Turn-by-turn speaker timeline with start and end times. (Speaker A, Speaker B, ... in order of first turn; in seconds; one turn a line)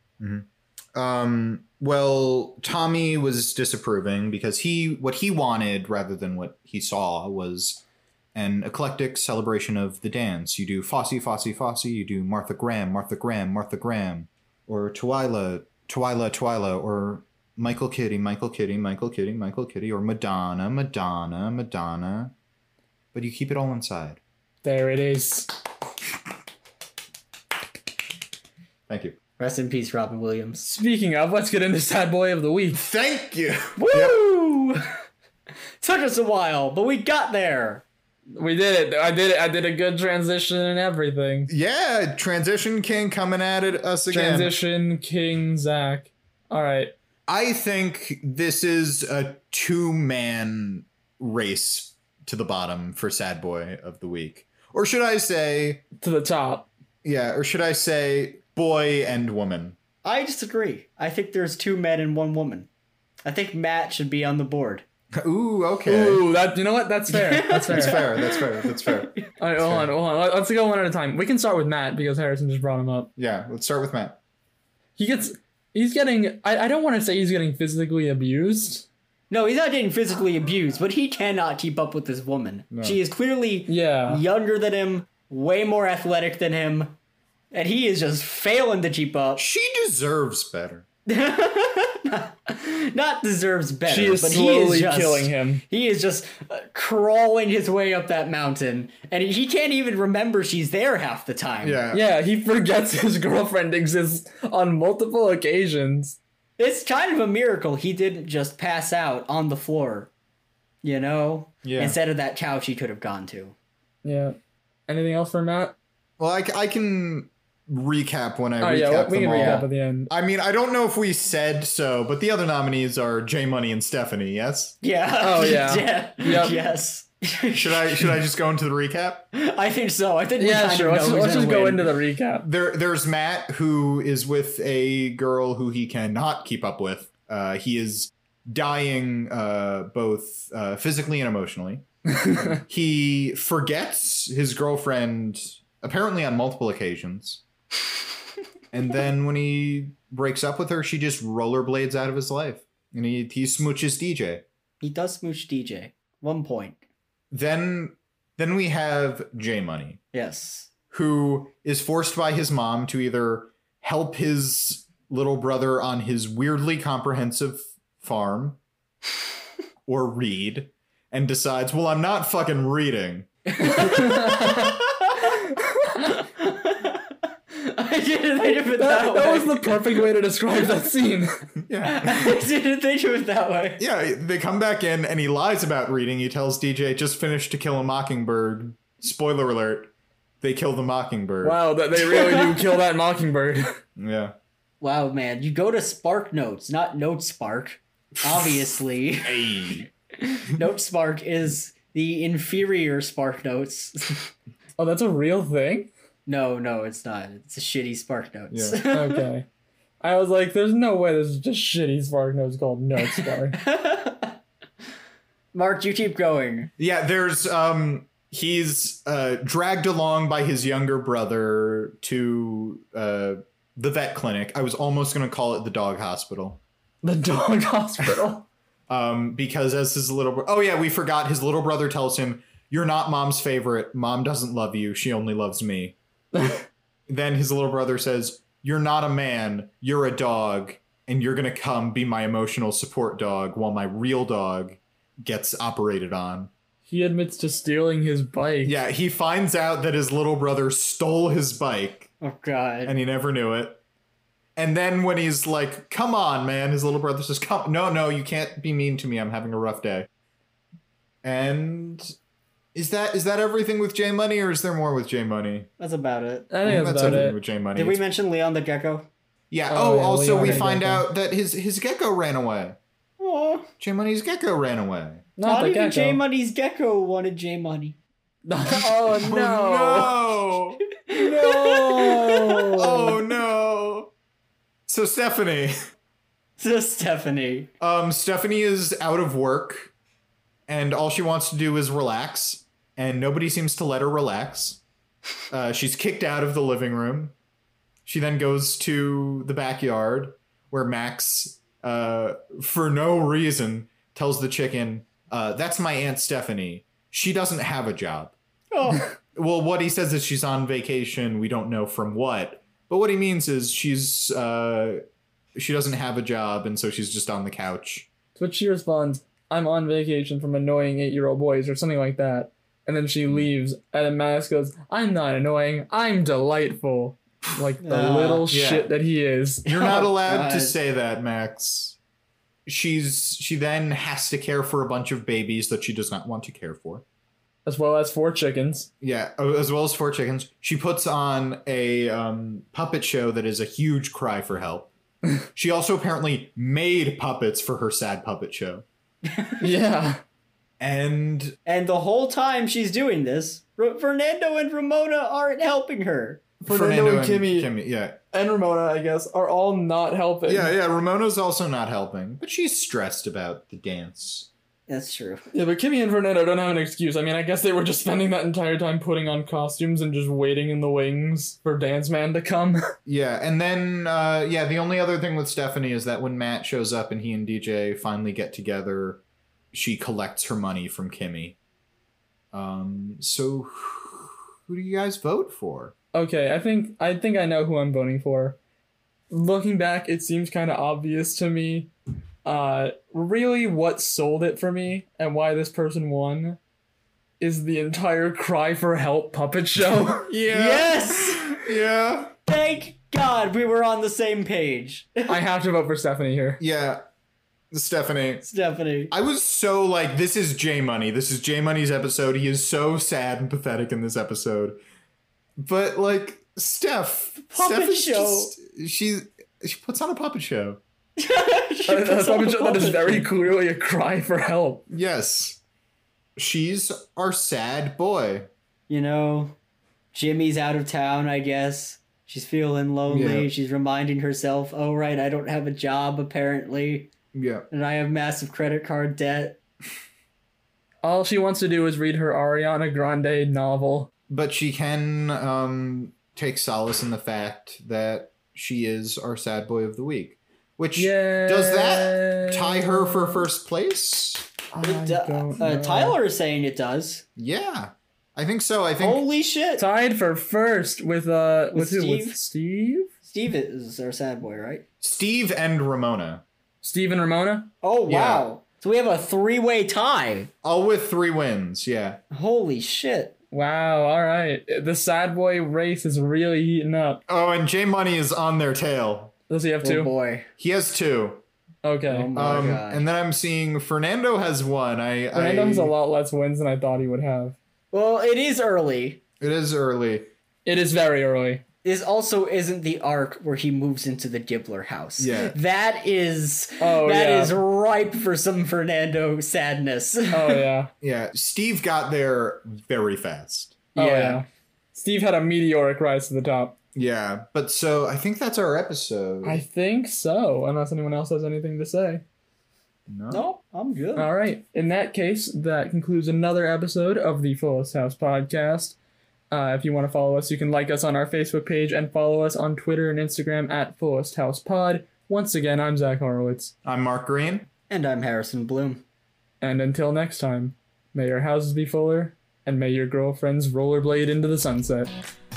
Speaker A: 0.2-7.8
Speaker A: 8.3-22.3
Speaker A: 23.1-24.2
Speaker B: 24.6-25.5
Speaker A: 28.9-29.1
Speaker C: 29.4-30.6
Speaker B: 30.6-32.8
Speaker A: 32.7-34.1
Speaker C: 33.8-34.8
Speaker C: 35.8-37.8
Speaker B: 38.3-41.5
Speaker A: 41.5-44.5
Speaker B: 44.1-46.9
Speaker A: 47.3-55.8
Speaker B: 56.0-56.7
Speaker A: 57.0-59.8
Speaker C: 60.0-62.7
Speaker C: 63.2-64.8
Speaker A: 65.2-66.2
Speaker B: 65.8-68.0
Speaker C: 67.1-69.3
Speaker A: 67.7-69.9
Speaker B: 69.4-73.1
Speaker A: 73.2-74.2
Speaker B: 75.0-78.9
Speaker C: 79.3-87.0
Speaker A: 82.7-83.0
Speaker B: 83.7-84.2
Speaker C: 87.5-89.4
Speaker A: 89.4-90.8
Speaker C: 91.1-101.8
Speaker B: 93.9-95.6
Speaker A: 101.6-102.0
Speaker B: 101.9-106.2
Speaker C: 106.6-110.1
Speaker C: 110.8-113.5
Speaker A: 111.6-112.0
Speaker B: 114.0-114.3
Speaker B: 114.9-115.8
Speaker A: 116.2-124.8
Speaker B: 118.6-120.1
Speaker C: 119.3-119.7
Speaker C: 124.8-128.2
Speaker B: 125.2-126.6
Speaker A: 127.5-129.3
Speaker C: 129.3-131.8
Speaker B: 130.4-132.5
Speaker A: 132.4-147.4
Speaker B: 142.1-142.6
Speaker A: 148.7-154.4
Speaker C: 154.8-156.8
Speaker A: 157.3-160.0
Speaker C: 160.1-160.7
Speaker A: 160.9-168.6
Speaker A: 169.9-173.3
Speaker C: 173.5-175.4
Speaker B: 173.6-174.8
Speaker B: 175.4-176.1
Speaker C: 176.0-180.0
Speaker B: 178.6-181.4
Speaker A: 181.7-182.4
Speaker C: 181.8-183.8
Speaker A: 183.8-191.6
Speaker B: 191.4-193.8
Speaker C: 192.0-192.7
Speaker A: 194.0-194.3
Speaker C: 194.8-204.3
Speaker A: 199.2-199.9
Speaker B: 204.8-205.9
Speaker C: 206.2-209.3
Speaker A: 208.5-208.8
Speaker B: 208.9-209.4
Speaker B: 210.0-213.6
Speaker C: 213.0-214.4
Speaker C: 215.5-216.7
Speaker A: 216.8-226.6
Speaker B: 227.0-228.5
Speaker A: 228.9-235.9
Speaker B: 236.3-236.6
Speaker A: 237.1-246.5
Speaker B: 246.9-248.8
Speaker A: 248.6-252.1
Speaker C: 252.2-252.9
Speaker A: 252.8-253.8
Speaker A: 254.6-260.1
Speaker A: 261.2-262.1
Speaker A: 262.7-265.7
Speaker C: 265.8-269.1
Speaker B: 266.5-267.4
Speaker A: 266.6-268.0
Speaker A: 269.5-272.8
Speaker B: 269.7-271.0
Speaker C: 270.4-270.7
Speaker C: 273.2-273.7
Speaker A: 273.8-275.3
Speaker B: 275.4-276.2
Speaker C: 275.4-278.0
Speaker B: 278.4-280.3
Speaker A: 279.2-280.9
Speaker C: 281.0-283.1
Speaker B: 281.1-283.1
Speaker A: 282.7-284.1
Speaker A: 284.9-285.7
Speaker C: 286.6-287.7
Speaker A: 287.8-289.9
Speaker A: 290.7-294.8
Speaker A: 295.5-297.3
Speaker A: 298.1-308.3
Speaker C: 308.7-309.1
Speaker A: 309.4-315.0
Speaker A: 315.5-318.1
Speaker B: 318.4-329.6
Speaker C: 327.8-328.5
Speaker A: 328.5-328.9
Speaker C: 329.6-330.8
Speaker A: 329.6-332.0
Speaker A: 332.6-337.0
Speaker B: 337.6-338.9
Speaker A: 339.0-344.9
Speaker A: 345.5-348.8
Speaker C: 349.3-349.7
Speaker B: 349.6-350.2
Speaker A: 350.8-351.6
Speaker C: 351.6-356.4
Speaker B: 356.6-357.7
Speaker A: 356.7-358.2
Speaker B: 358.3-360.7
Speaker A: 360.4-364.5
Speaker C: 364.9-365.4
Speaker B: 365.5-372.8
Speaker A: 373.1-379.2
Speaker A: 379.7-381.6
Speaker A: 382.5-385.9
Speaker B: 386.1-388.6
Speaker B: 389.3-391.9
Speaker B: 392.4-396.6
Speaker B: 397.4-400.4
Speaker A: 400.3-402.3
Speaker C: 400.4-401.6
Speaker C: 402.5-405.4
Speaker B: 405.3-406.6
Speaker A: 406.6-407.0
Speaker A: 407.7-408.4
Speaker C: 408.4-409.1
Speaker A: 409.1-414.8
Speaker A: 415.6-420.8
Speaker C: 417.4-418.5
Speaker C: 421.2-423.3
Speaker B: 421.9-424.8
Speaker A: 424.9-425.6
Speaker A: 426.4-428.5
Speaker C: 428.9-429.6
Speaker C: 430.1-437.1
Speaker A: 433.1-433.5
Speaker A: 437.3-437.7
Speaker C: 437.7-439.6
Speaker B: 441.0-444.1
Speaker A: 444.3-454.5
Speaker B: 450.9-453.4
Speaker B: 454.7-456.2
Speaker C: 454.8-457.2
Speaker A: 457.4-459.2
Speaker C: 459.0-459.8
Speaker B: 459.8-463.1
Speaker C: 461.7-462.4
Speaker C: 463.2-464.8
Speaker A: 465.0-466.4
Speaker B: 466.8-467.7
Speaker C: 467.8-470.5
Speaker A: 468.1-468.4
Speaker A: 470.6-472.2
Speaker C: 472.3-473.4
Speaker B: 473.5-477.2
Speaker A: 477.3-479.3
Speaker B: 479.5-480.1
Speaker C: 479.8-480.5
Speaker A: 480.6-481.4
Speaker B: 481.8-482.3
Speaker C: 482.1-483.0
Speaker A: 482.3-485.9
Speaker B: 485.3-487.6
Speaker C: 487.9-489.2
Speaker A: 489.4-490.3
Speaker B: 490.6-491.6
Speaker C: 491.8-500.6
Speaker A: 495.2-495.5
Speaker B: 496.8-497.6
Speaker B: 500.3-500.9
Speaker A: 501.0-503.9
Speaker B: 503.9-506.7
Speaker C: 504.0-504.4
Speaker A: 506.9-509.6
Speaker B: 509.4-512.2
Speaker A: 513.1-513.4
Speaker C: 513.3-514.3
Speaker B: 514.1-519.0
Speaker B: 519.5-526.7
Speaker A: 526.8-527.7
Speaker C: 527.9-529.0
Speaker B: 529.6-535.1